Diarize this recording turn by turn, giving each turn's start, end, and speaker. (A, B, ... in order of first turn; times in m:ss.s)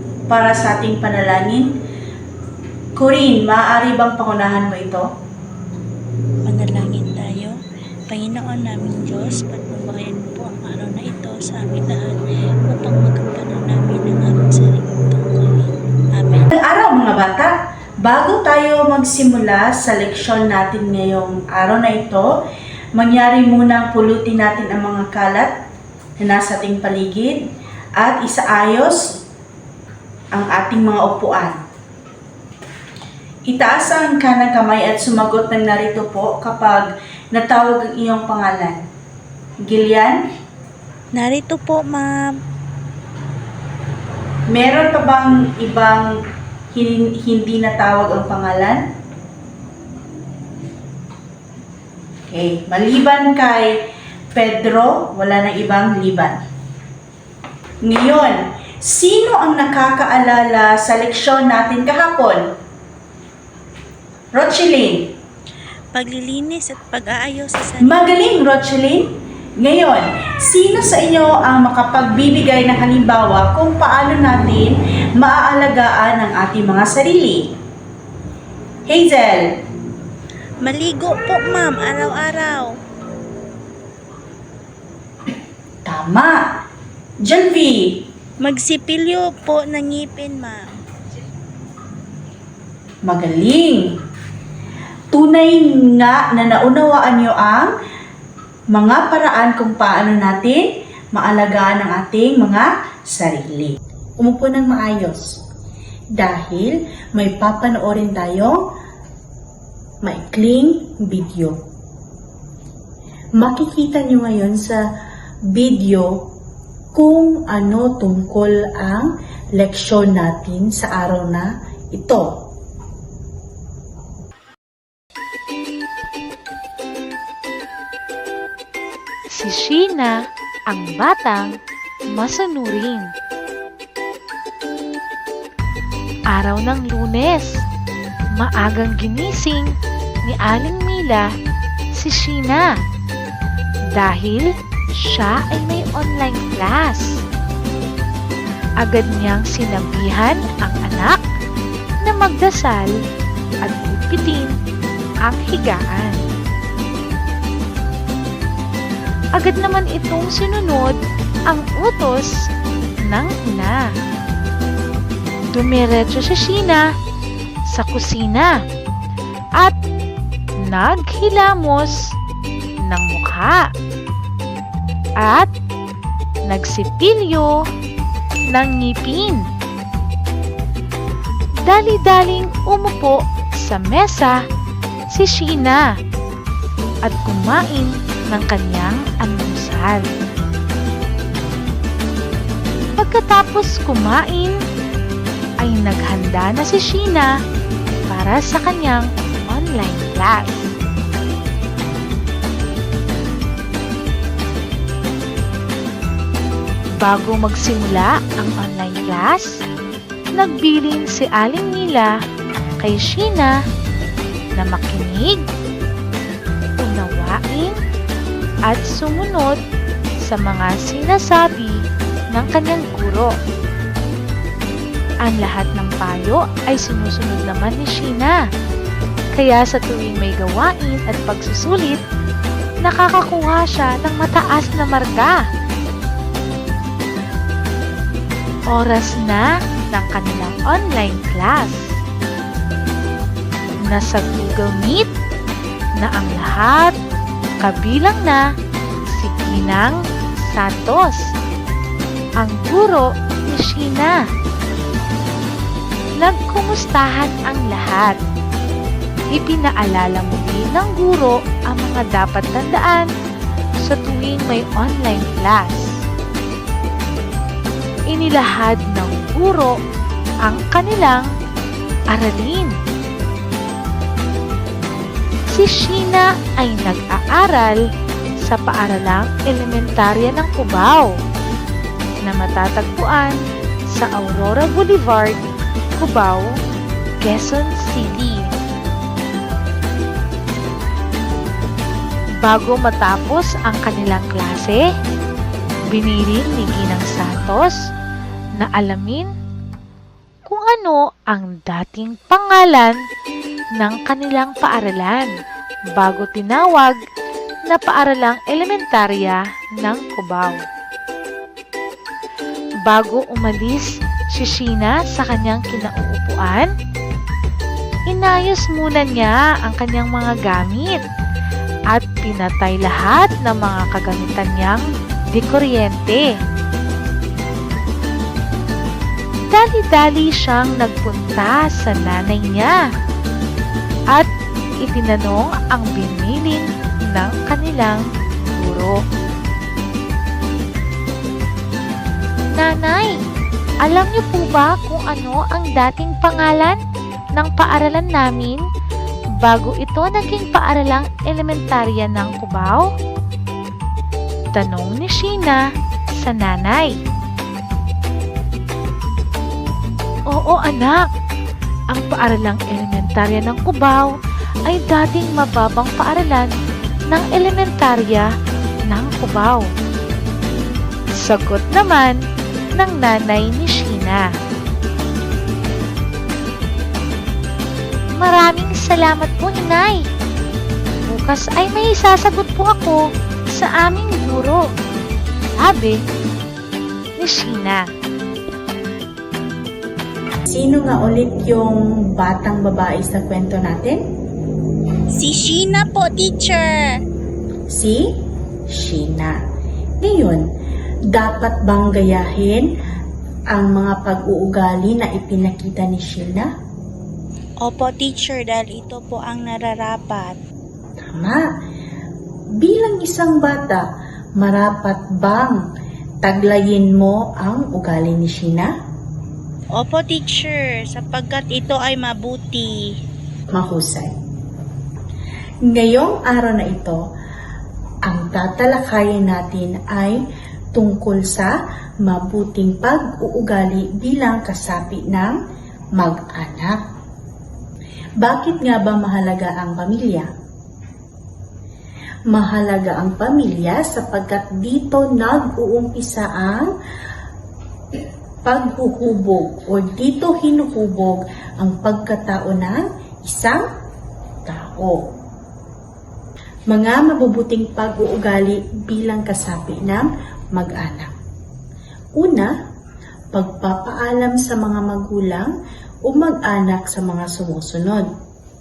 0:00.3-0:01.7 A
0:03.0-0:05.0 A
0:06.4-0:07.6 B
0:08.1-0:16.5 B
0:16.5-0:22.3 A
0:23.0-0:25.5 A
0:26.2-0:27.4 A
0:28.0-0:29.2 A
0:30.3-0:31.6 A
0:33.5-0:38.8 A
0:39.6-0:40.2 A
0:41.1-0:42.4 B
0:44.5-0:46.1 A
0:46.7-0:48.8 A
0:52.3-0:53.8 A
0:54.3-0:56.4 A
0:57.8-1:02.5 A
1:04.3-1:05.1 A
1:05.9-1:08.0 B
1:07.8-1:09.0 A
1:09.6-1:17.4 A
1:18.9-1:19.4 A
1:20.6-1:22.7 B
1:25.8-1:26.4 A
1:27.2-1:27.9 A
1:28.4-1:30.7 B
1:33.0-1:33.9 A
1:35.1-1:37.7 A
1:38.7-1:45.2 A
1:46.2-1:48.6 A
1:50.0-1:51.6 A
1:53.4-1:54.8 A
1:55.5-1:56.1 A
1:56.9-2:02.3 A
2:09.3-2:10.2 C
2:10.7-2:11.5 C
2:12.1-2:13.1 C
2:16.3-2:17.6 C
2:18.4-2:19.7 C
2:20.2-2:21.3 C
2:22.0-2:22.6 C
2:24.0-2:24.5 C
2:25.0-2:27.2 C
2:28.8-2:31.2 C
2:32.0-2:32.9 C
2:33.6-2:34.5 C
2:35.2-2:36.2 C
2:39.4-2:41.0 C
2:41.5-2:42.3 C
2:43.0-2:43.8 C
2:45.5-2:46.8 C
2:47.7-2:48.5 C
2:50.7-2:52.0 C
2:52.8-2:53.7 C
2:55.2-2:55.5 C
2:56.5-2:57.5 C
2:58.5-2:59.4 C
3:01.7-3:04.4 C
3:05.1-3:05.8 C
3:07.0-3:10.1 C
3:13.0-3:14.6 C
3:15.6-3:17.3 C
3:18.1-3:20.7 C
3:27.0-3:29.5 C
3:30.4-3:32.1 C
3:32.8-3:33.5 C
3:34.6-3:35.4 C
3:36.8-3:37.8 C
3:38.7-3:39.6 C
3:40.3-3:41.8 C
3:42.3-3:43.3 C
3:45.3-3:48.4 C
3:49.4-3:52.0 C
3:52.8-3:55.4 C
3:58.7-4:01.8 C
4:03.9-4:05.1 C
4:06.0-4:06.9 C
4:07.6-4:08.4 C
4:09.1-4:10.0 C
4:10.5-4:11.2 C
4:12.4-4:14.2 C
4:16.2-4:18.2 C
4:19.3-4:23.1 C
4:23.8-4:26.0 C
4:28.1-4:29.7 C
4:30.4-4:31.3 C
4:32.1-4:32.7 C
4:35.5-4:37.8 C
4:38.4-4:41.1 C
4:42.2-4:43.3 C
4:43.9-4:45.4 C
4:46.0-4:46.5 C
4:47.2-4:48.5 C
4:52.4-4:54.8 C
4:55.9-4:57.8 C
4:58.6-4:59.3 C
5:00.5-5:03.0 C
5:03.8-5:05.3 C
5:06.0-5:07.0 C
5:07.7-5:10.6 C
5:12.8-5:16.7 C
5:18.1-5:21.0 C
5:21.9-5:26.3 C
5:29.5-5:32.8 C
5:34.8-5:39.0 C
5:42.6-5:43.1 C
5:43.8-5:46.8 C
5:47.4-5:48.6 C
5:49.4-5:52.9 C
5:54.5-5:55.6 C
5:56.2-5:56.9 C
6:00.3-6:01.0 C
6:01.9-6:04.1 C
6:04.6-6:06.5 C
6:07.1-6:08.3 C
6:08.9-6:09.7 C
6:11.2-6:12.2 C
6:12.8-6:14.3 C
6:18.2-6:20.0 C
6:21.1-6:23.0 C
6:23.5-6:24.6 C
6:25.6-6:26.0 C
6:27.2-6:27.8 C
6:30.5-6:34.0 A
6:35.1-6:37.0 B
6:37.7-6:38.1 A
6:38.7-6:39.4 A
6:40.0-6:40.4 A
6:41.1-6:42.7 A
6:43.5-6:46.5 A
6:47.6-6:50.4 B
6:51.0-6:51.4 A
6:52.6-6:53.8 A
6:54.4-6:55.6 A
6:56.2-6:58.7 A
6:59.8-7:02.8 B
7:03.5-7:04.1 A
7:05.7-7:07.0 A
7:08.0-7:10.2 A
7:10.7-7:15.3 A
7:16.0-7:16.8 A
7:18.2-7:20.3 A
7:22.3-7:26.7 A
7:28.4-7:33.6 A
7:34.4-7:35.0 A
7:36.7-7:41.1 A
7:42.1-7:42.5 A
7:43.3-7:45.5 A
7:46.0-7:48.0 A